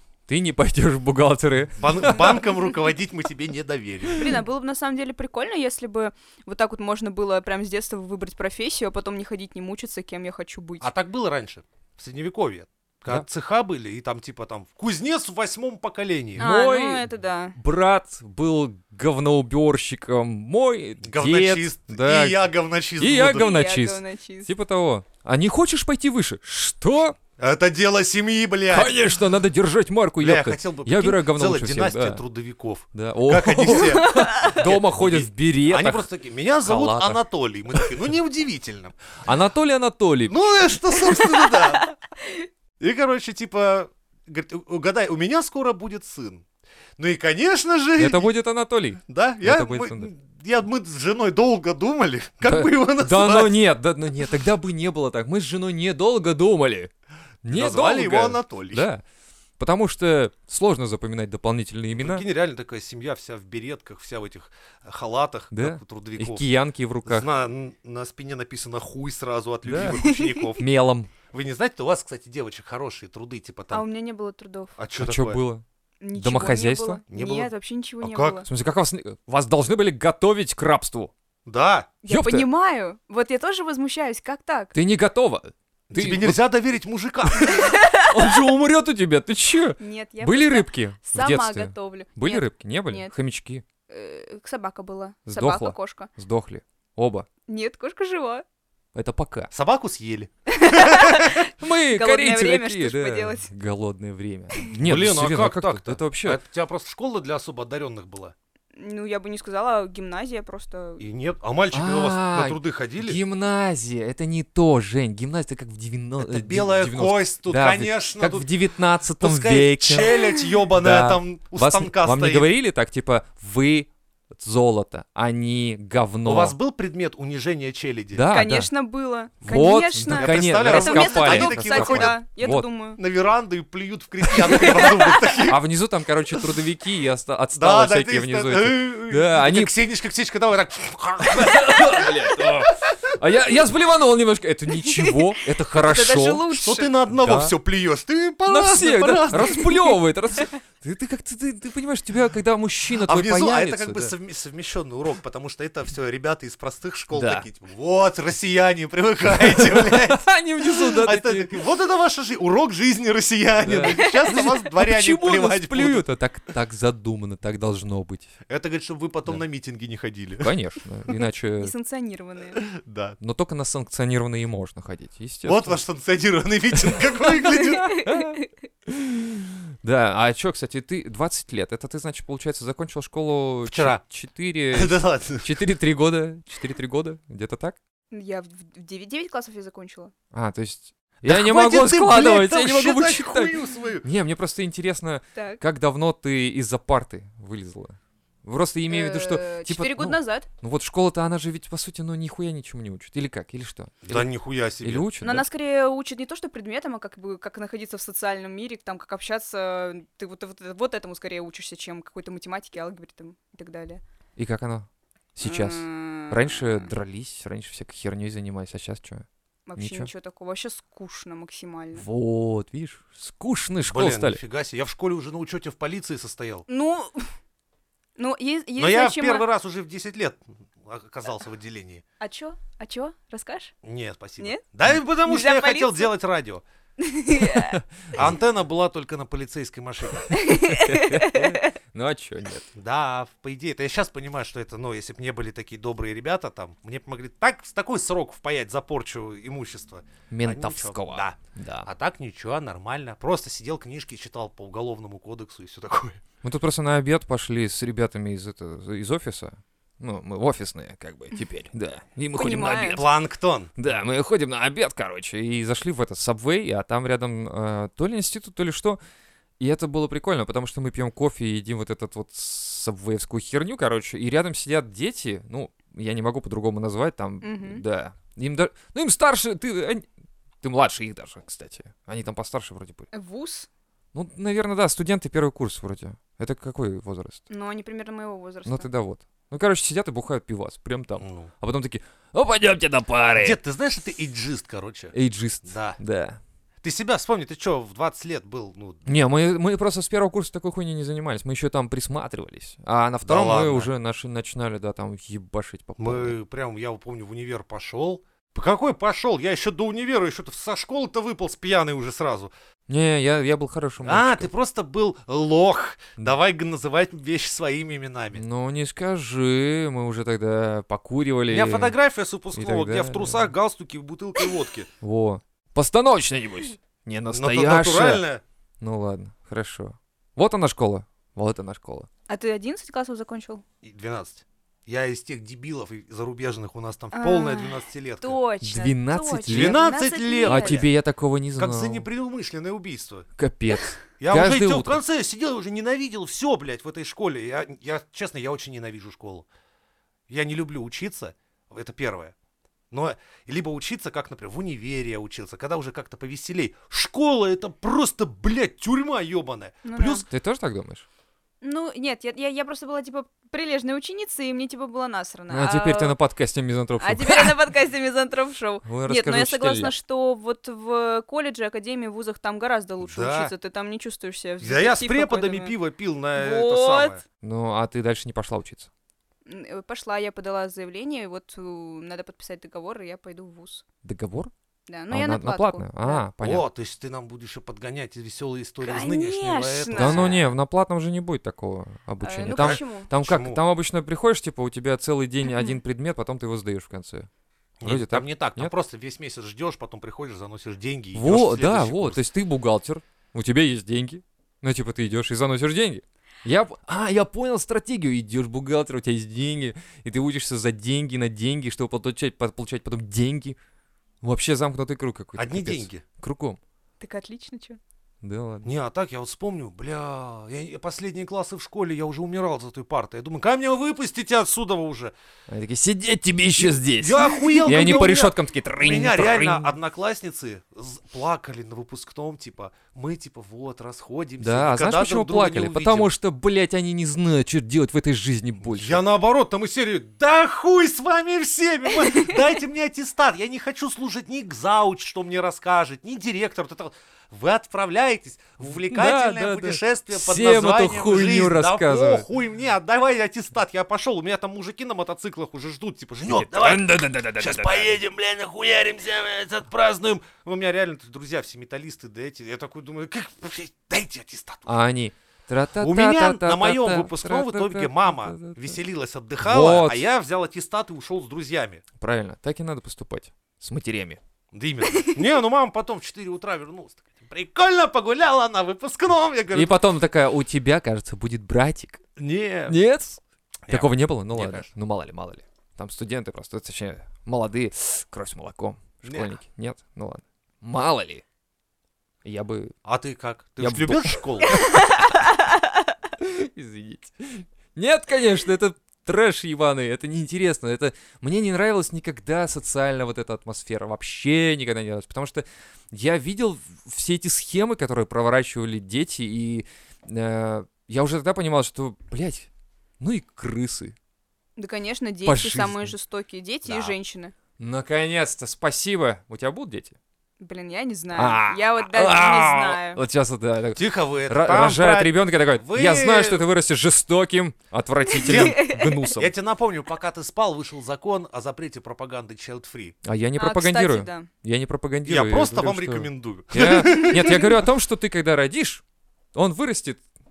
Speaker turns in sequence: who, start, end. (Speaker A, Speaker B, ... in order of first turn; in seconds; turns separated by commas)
Speaker A: 0.3-2.4, Speaker B: 1.8-4.3, Speaker C: 4.1-10.9, Speaker B: 10.8-16.4, Speaker A: 16.4-27.2, Speaker C: 16.4-17.6, Speaker B: 21.0-23.5, Speaker C: 23.2-24.5, Speaker B: 27.4-28.9, Speaker A: 28.7-32.2, Speaker B: 30.2-39.0, Speaker A: 32.9-36.1, Speaker C: 34.0-34.6, Speaker A: 36.6-37.2, Speaker A: 39.2-40.4, Speaker B: 40.3-41.9, Speaker C: 41.6-41.9, Speaker B: 42.8-46.4, Speaker B: 47.0-48.3, Speaker A: 48.0-50.1, Speaker B: 49.1-53.5, Speaker A: 52.4-56.9, Speaker A: 57.4-59.0, Speaker B: 57.5-58.9, Speaker A: 59.6-62.2, Speaker B: 61.9-66.4, Speaker A: 65.5-67.3, Speaker B: 67.0-70.7, Speaker A: 69.6-71.1, Speaker C: 70.0-70.4, Speaker B: 71.3-73.8, Speaker C: 73.7-74.8, Speaker B: 74.8-75.4, Speaker A: 75.0-77.0, Speaker C: 76.0-78.5, Speaker B: 77.1-77.5, Speaker B: 78.0-78.4, Speaker A: 78.5-81.1, Speaker B: 81.5-81.9, Speaker C: 82.0-84.7, Speaker A: 82.1-82.5, Speaker A: 84.7-86.4, Speaker B: 85.9-87.8, Speaker A: 87.2-93.6, Speaker C: 87.6-88.2, Speaker C: 89.8-93.1, Speaker C: 93.9-96.1, Speaker A: 95.3-97.3, Speaker C: 97.5-98.4, Speaker A: 98.9-99.5, Speaker B: 99.5-101.2, Speaker C: 100.5-103.5, Speaker A: 101.4-106.4, Speaker B: 104.8-108.3, Speaker C: 108.7-111.0, Speaker B: 111.0-113.2, Speaker A: 111.7-120.2, Speaker B: 116.2-118.5, Speaker B: 119.2-122.5, Speaker A: 120.8-126.5, Speaker B: 126.2-128.3, Speaker A: 128.1-128.7, Speaker C: 128.3-133.0, Speaker A: 129.4-132.7, Speaker B: 129.4-132.2, Speaker B: 132.9-135.6, Speaker A: 134.5-139.7, Speaker C: 134.5-135.2, Speaker B: 137.5-142.1, Speaker A: 141.2-146.5, Speaker C: 144.7-146.9, Speaker B: 146.5-149.7, Speaker A: 147.1-147.5, Speaker A: 148.4-154.1, Speaker B: 152.9-166.1, Speaker A: 157.1-157.4, Speaker A: 159.2-161.6, Speaker A: 163.6-168.3, Speaker C: 163.9-164.5, Speaker B: 168.5-170.5, Speaker A: 170.4-171.7, Speaker C: 171.6-172.6, Speaker B: 172.6-173.2, Speaker A: 173.2-175.8, Speaker B: 175.4-177.9, Speaker A: 176.8-187.8, Speaker C: 177.8-178.5, Speaker B: 183.6-184.0, Speaker B: 184.7-185.6, Speaker C: 188.1-190.1, Speaker A: 190.3-205.5, Speaker B: 191.2-194.0, Speaker C: 195.3-195.6, Speaker C: 198.9-200.5, Speaker B: 204.0-205.1, Speaker C: 205.2-214.0, Speaker A: 214.4-219.2, Speaker C: 215.4-216.9, Speaker C: 219.7-222.1, Speaker A: 219.8-220.1, Speaker A: 221.9-224.4, Speaker B: 223.8-226.6, Speaker C: 226.7-227.3, Speaker C: 228.2-229.4, Speaker B: 228.8-232.0, Speaker C: 232.2-233.7, Speaker B: 233.8-236.6, Speaker C: 235.2-236.1, Speaker C: 237.0-237.8, Speaker A: 237.4-238.3, Speaker B: 238.1-240.3, Speaker A: 240.3-242.7, Speaker C: 240.3-241.7, Speaker B: 242.7-256.2, Speaker A: 250.3-251.9, Speaker A: 256.4-263.1, Speaker C: 262.4-263.0, Speaker B: 262.8-263.7, Speaker A: 263.8-269.0, Speaker A: 269.6-280.1, Speaker C: 277.4-277.8, Speaker A: 280.6-283.1, Speaker C: 283.1-283.7, Speaker A: 284.1-287.4, Speaker C: 287.5-288.9, Speaker A: 288.6-293.6, Speaker B: 291.2-291.5, Speaker B: 293.4-296.0, Speaker A: 295.1-296.4, Speaker B: 296.8-299.1, Speaker A: 299.1-306.4, Speaker B: 303.2-303.9, Speaker B: 306.0-312.5, Speaker A: 312.9-314.5, Speaker B: 314.0-318.4, Speaker A: 318.3-321.9, Speaker B: 321.5-324.9, Speaker A: 322.5-323.5, Speaker A: 325.0-328.2, Speaker B: 327.3-328.4, Speaker A: 328.8-332.1, Speaker C: 332.3-333.6, Speaker B: 333.8-338.4, Speaker C: 337.1-340.8, Speaker A: 338.6-339.8, Speaker B: 339.5-340.9, Speaker A: 340.4-342.1, Speaker B: 341.6-343.2, Speaker A: 343.4-345.0, Speaker B: 344.2-349.4, Speaker B: 350.3-352.3, Speaker B: 352.9-360.2, Speaker C: 359.8-360.2, Speaker A: 360.3-361.0, Speaker C: 361.6-366.1, Speaker A: 365.5-367.6, Speaker C: 367.0-375.8, Speaker A: 368.8-369.9, Speaker B: 373.0-373.5, Speaker B: 374.6-377.2, Speaker C: 376.4-377.2, Speaker A: 377.4-378.9, Speaker C: 379.4-383.8, Speaker A: 384.0-384.5, Speaker C: 384.9-386.2, Speaker A: 385.1-386.6, Speaker B: 386.4-390.4, Speaker C: 388.8-390.3, Speaker A: 389.9-397.3, Speaker C: 392.2-393.1, Speaker B: 392.5-393.6, Speaker C: 395.4-395.8, Speaker B: 397.8-402.2, Speaker A: 397.8-398.7, Speaker A: 401.1-413.6, Speaker A: 414.2-416.6, Speaker B: 415.4-416.0, Speaker C: 417.0-417.8, Speaker A: 418.2-418.7, Speaker B: 418.6-425.1, Speaker A: 425.5-429.7, Speaker B: 426.5-436.1, Speaker C: 427.4-428.1, Speaker A: 434.4-439.0, Speaker B: 438.6-464.8, Speaker A: 448.6-452.2, Speaker A: 456.2-458.0, Speaker A: 464.7-468.8, Speaker B: 465.8-471.8, Speaker A: 469.4-470.0, Speaker A: 472.0-474.2, Speaker B: 474.5-479.8, Speaker A: 479.5-482.0, Speaker B: 482.2-482.8, Speaker A: 482.7-491.2, Speaker B: 483.7-484.7, Speaker B: 489.0-489.3, Speaker A: 492.2-492.7, Speaker B: 492.8-494.6, Speaker A: 493.6-494.2, Speaker A: 496.2-512.5, Speaker A: 513.0-514.0, Speaker C: 514.6-517.3, Speaker A: 515.2-515.9, Speaker B: 516.6-516.9, Speaker A: 517.6-520.0, Speaker C: 520.4-523.0, Speaker A: 521.1-529.3, Speaker B: 523.7-526.5, Speaker B: 528.2-532.9, Speaker C: 528.2-529.0, Speaker A: 533.0-538.8, Speaker C: 533.4-534.3, Speaker B: 535.0-537.5, Speaker A: 539.3-540.0